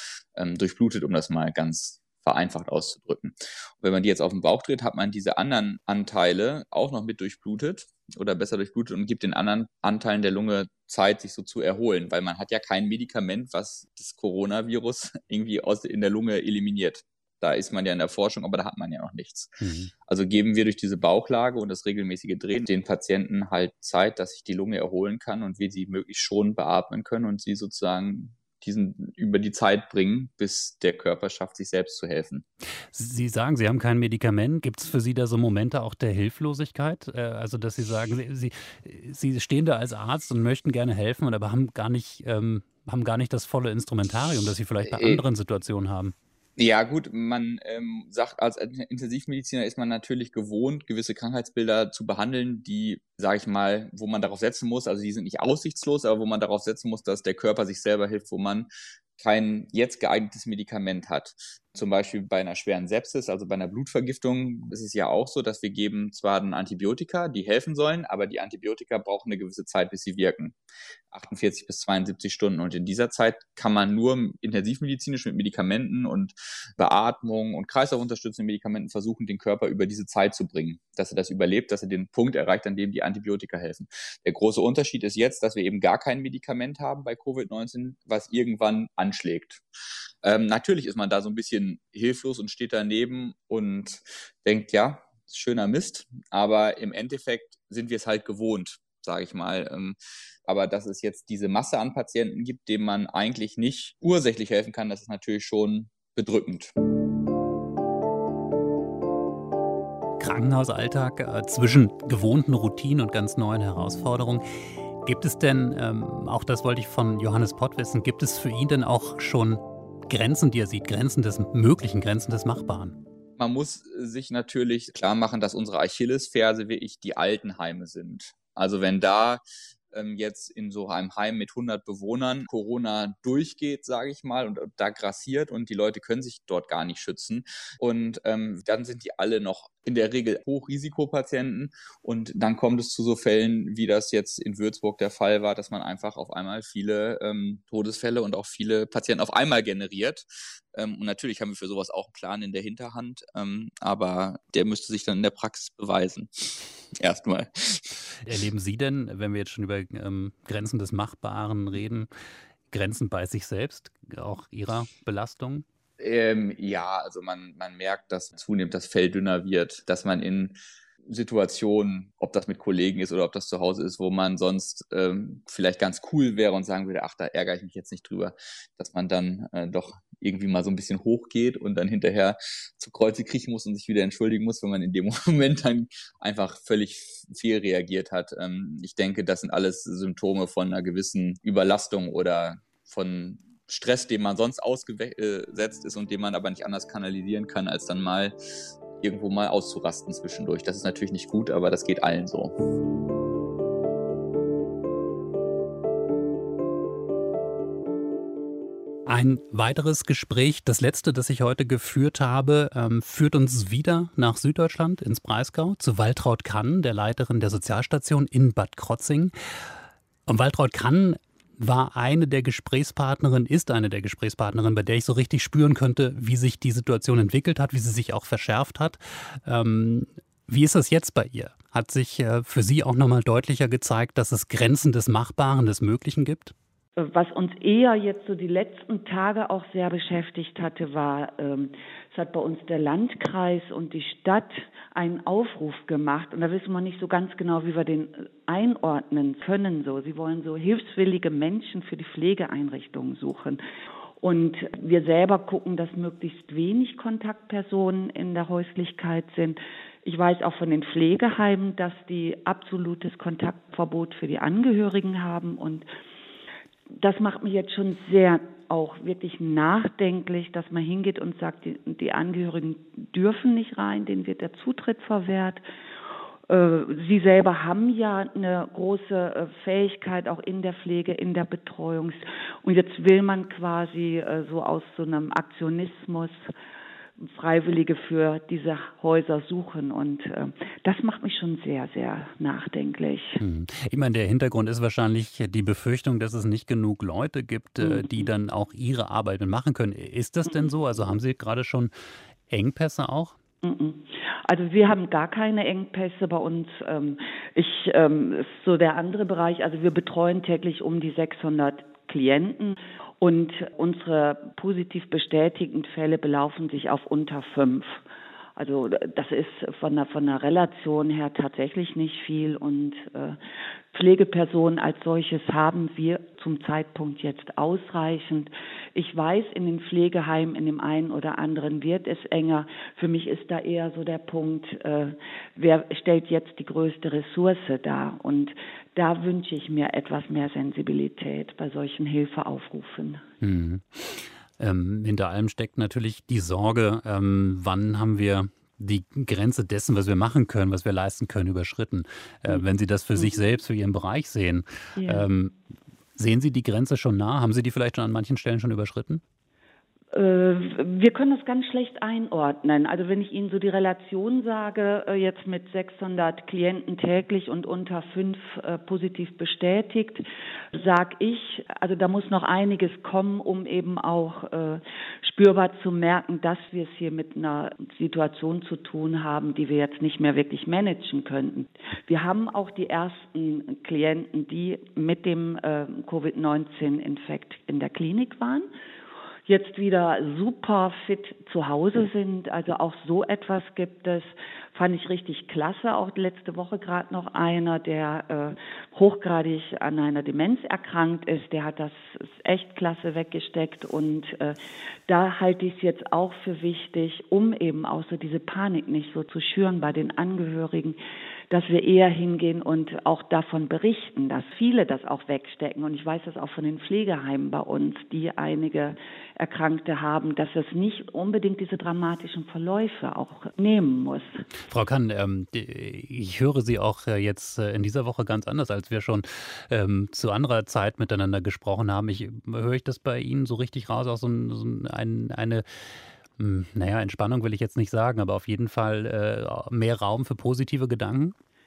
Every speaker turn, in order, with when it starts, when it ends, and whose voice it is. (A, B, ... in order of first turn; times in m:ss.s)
0:00.3-0:32.4 A
0:19.6-0:19.9 B
0:32.9-0:46.1 B
0:44.8-0:45.2 A
0:46.6-1:10.6 A
1:11.1-1:29.6 A
1:30.2-1:46.7 A
1:50.2-1:54.4 B
1:55.0-2:03.0 B
2:03.4-2:38.0 A
2:38.2-2:42.1 B
2:42.7-2:45.6 B
2:46.0-3:18.3 A
3:18.9-3:22.5 A
3:29.1-3:39.3 B
3:40.3-3:56.5 B
3:57.0-4:13.6 C
4:14.2-4:25.8 C
4:26.9-4:35.6 C
4:36.5-4:46.4 C
4:47.2-4:53.4 C
4:53.4-5:01.9 B
4:57.8-4:58.3 C
5:02.5-5:03.4 B
5:03.6-5:18.0 C
5:18.6-5:23.4 C
5:23.9-5:43.2 C
5:43.4-5:55.5 B
5:52.5-5:53.4 C
5:55.0-5:55.3 C
5:56.2-5:59.2 B
6:00.1-6:28.7 C
6:29.4-6:51.0 C
6:51.5-7:04.4 C
7:04.7-7:15.6 B
7:16.4-7:21.3 B